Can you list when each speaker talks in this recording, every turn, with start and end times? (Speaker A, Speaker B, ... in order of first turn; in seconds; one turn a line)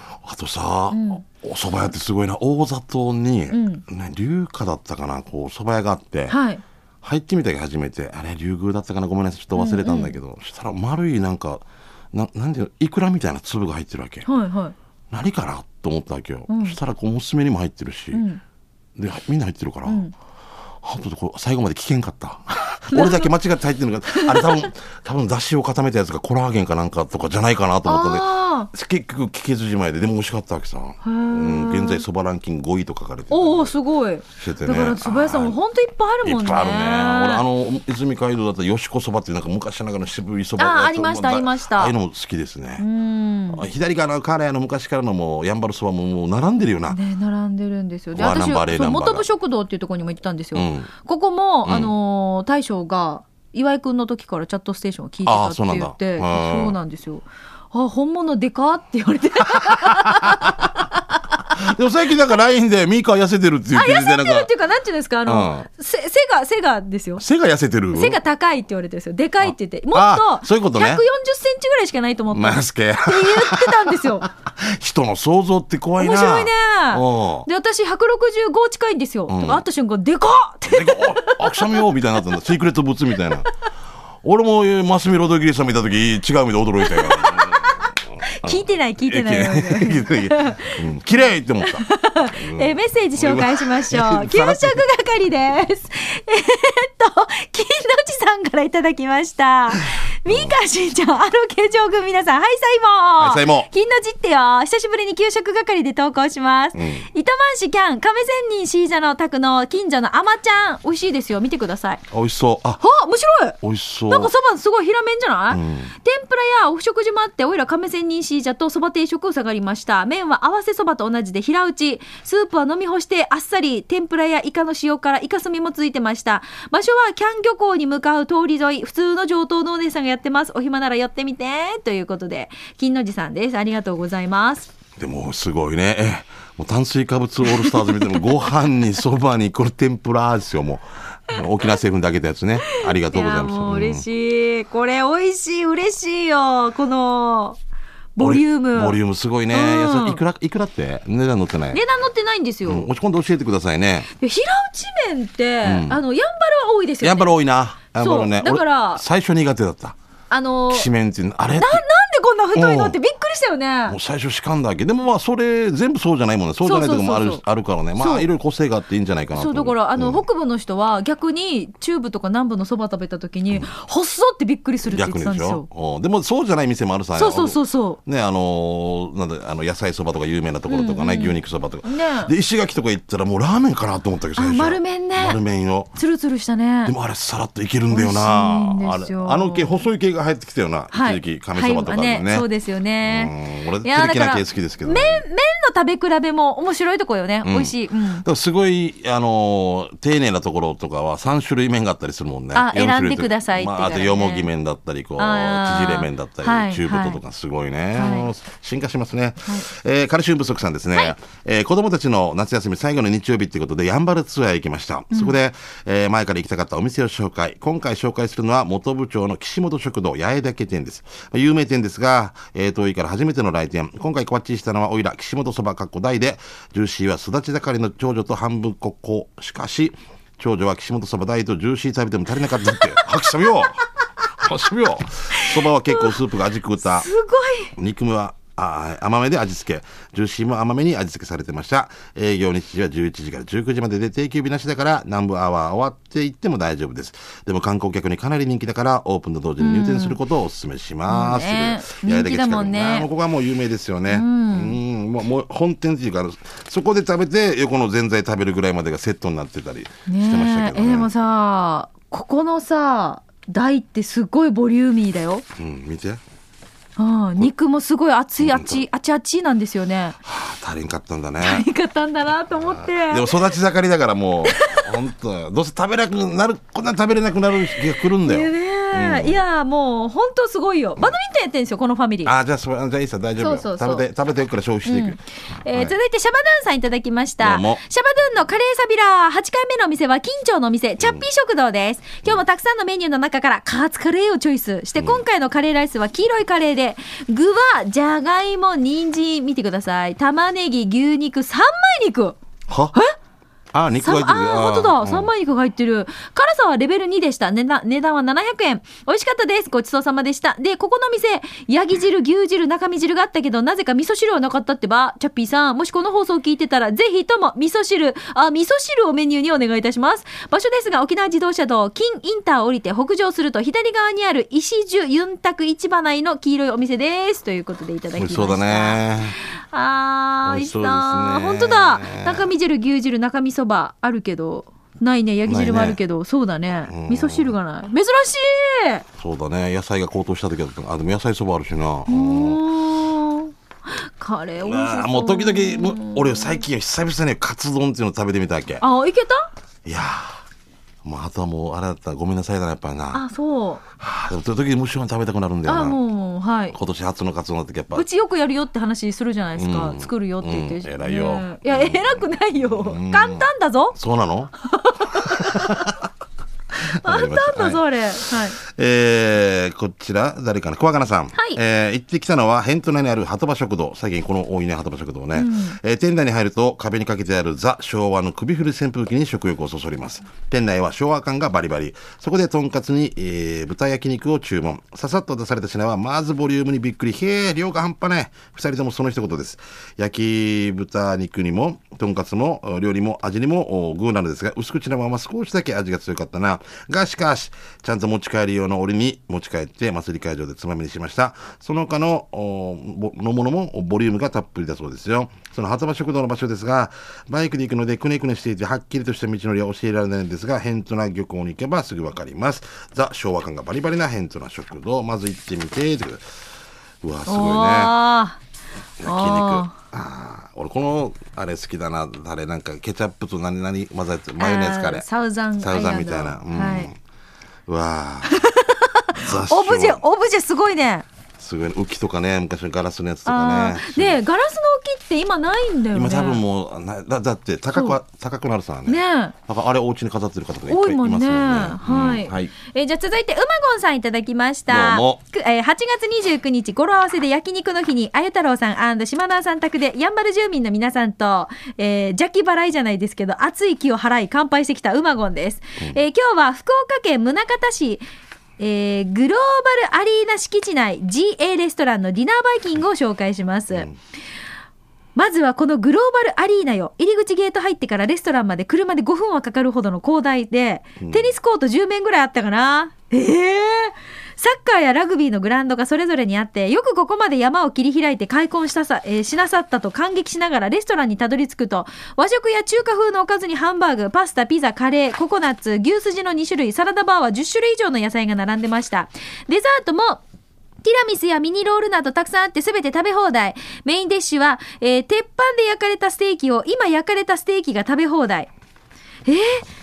Speaker A: 0.2-6.3
Speaker B: 0.9-1.2
Speaker B: 3.5-3.8
Speaker B: 6.3-6.6
Speaker A: 7.0-14.3
Speaker B: 9.5-10.2
Speaker B: 14.2-14.7
Speaker A: 15.1-18.2
Speaker B: 16.5-16.8
Speaker B: 18.1-18.4
Speaker A: 18.9-20.0
Speaker B: 19.8-20.1
Speaker A: 20.8-33.7
Speaker B: 22.9-23.3
Speaker B: 24.1-24.5
Speaker B: 27.8-28.7
Speaker B: 31.0-32.0
Speaker B: 33.3-37.4
Speaker A: 34.4-35.6
Speaker A: 36.2-42.8
Speaker B: 40.6-41.9
Speaker B: 42.8-43.6
Speaker A: 43.5-47.0
Speaker B: 46.9-61.0
Speaker A: 48.1-49.2
Speaker A: 50.5-50.9
Speaker A: 51.6-51.9
Speaker A: 55.2-56.8
Speaker A: 59.6-60.7
Speaker A: 61.5-64.5
Speaker B: 63.7-67.2
Speaker A: 65.3-65.7
Speaker A: 67.2-68.2
Speaker B: 67.9-74.3
Speaker A: 69.4-71.0
Speaker A: 72.3-77.5
Speaker B: 76.0-81.9
Speaker A: 79.3-79.6
Speaker A: 80.7-83.5
Speaker A: 84.2-87.8
Speaker B: 86.8-90.9
Speaker A: 88.4-94.8
Speaker B: 91.6-112.0
Speaker A: 100.3-100.5
Speaker A: 103.2-103.7
Speaker A: 106.7-107.1
Speaker A: 112.1-112.8
Speaker B: 112.8-113.6
Speaker A: 113.6-114.3
Speaker B: 114.1-134.7
Speaker A: 115.5-115.9
Speaker A: 135.0-144.1
Speaker B: 137.4-138.3
Speaker B: 142.6-147.6
Speaker B: 148.2-149.0
Speaker A: 148.2-151.8
Speaker B: 149.5-150.2
Speaker B: 151.7-152.9
Speaker A: 152.6-154.1
Speaker B: 154.2-157.3
Speaker A: 155.6-156.0
Speaker A: 157.0-159.9
Speaker B: 157.9-159.0
Speaker B: 160.3-160.9
Speaker A: 160.7-161.8
Speaker B: 161.6-164.0
Speaker A: 162.5-163.0
Speaker A: 163.9-170.2
Speaker B: 166.6-167.4
Speaker B: 168.0-168.3
Speaker B: 169.3-175.7
Speaker A: 174.8-185.9
Speaker B: 177.2-178.0
Speaker B: 180.7-182.3
Speaker B: 184.4-185.4
Speaker B: 185.9-186.9
Speaker A: 186.8-192.5
Speaker B: 187.9-189.8
Speaker B: 190.9-198.2
Speaker A: 193.0-195.2
Speaker A: 197.4-233.8
Speaker B: 202.5-204.5
Speaker B: 205.2-207.2
Speaker B: 207.9-208.3
Speaker B: 232.7-233.0
Speaker A: 234.4-237.1
Speaker B: 235.3-236.1
Speaker B: 236.8-237.7
Speaker A: 237.7-261.1
Speaker B: 249.6-250.2
Speaker B: 251.1-253.1
Speaker B: 254.1-254.8
Speaker B: 260.1-265.4
Speaker A: 265.6-266.2
Speaker B: 267.0-270.2
Speaker A: 268.4-268.8
Speaker A: 270.2-271.7
Speaker B: 271.4-273.5
Speaker A: 272.7-279.4
Speaker B: 274.4-274.9
Speaker B: 278.2-282.3
Speaker A: 282.2-285.9
Speaker B: 283.4-284.0
Speaker B: 284.9-302.4
Speaker A: 287.4-287.8
Speaker A: 291.0-291.2
Speaker A: 295.0-295.2
Speaker A: 302.7-302.9
Speaker A: 303.7-305.3
Speaker B: 304.0-339.0
Speaker A: 328.1-329.4
Speaker A: 330.4-332.5
Speaker A: 335.5-336.0
Speaker A: 336.9-337.5
Speaker A: 339.2-342.6
Speaker B: 342.1-346.6
Speaker A: 344.6-348.8
Speaker B: 348.8-349.5
Speaker A: 349.8-350.4
Speaker A: 351.0-353.2
Speaker B: 353.1-353.8
Speaker A: 354.0-356.0
Speaker B: 355.6-356.8
Speaker A: 356.7-358.1
Speaker B: 357.9-363.9
Speaker A: 359.6-362.2
Speaker A: 362.8-364.5
Speaker B: 364.7-365.9
Speaker A: 365.1-366.0
Speaker B: 366.9-368.6
Speaker A: 366.9-367.8
Speaker A: 368.6-416.2
Speaker B: 375.3-375.8
Speaker A: 417.0-417.9
Speaker B: 417.3-418.4
Speaker A: 419.0-425.1
Speaker B: 419.0-419.7
Speaker B: 424.4-426.9
Speaker A: 425.6-426.9
Speaker A: 427.7-428.4
Speaker B: 428.2-431.1
Speaker A: 429.1-430.0
Speaker A: 431.4-434.2
Speaker B: 433.2-436.4
Speaker A: 435.9-442.5
Speaker B: 438.9-439.3
Speaker B: 440.7-458.0
Speaker A: 444.7-445.2
Speaker B: 458.6-463.9
Speaker B: 465.1-490.2
Speaker A: 471.0-471.3
Speaker B: 490.8-498.5
Speaker B: 499.2-499.6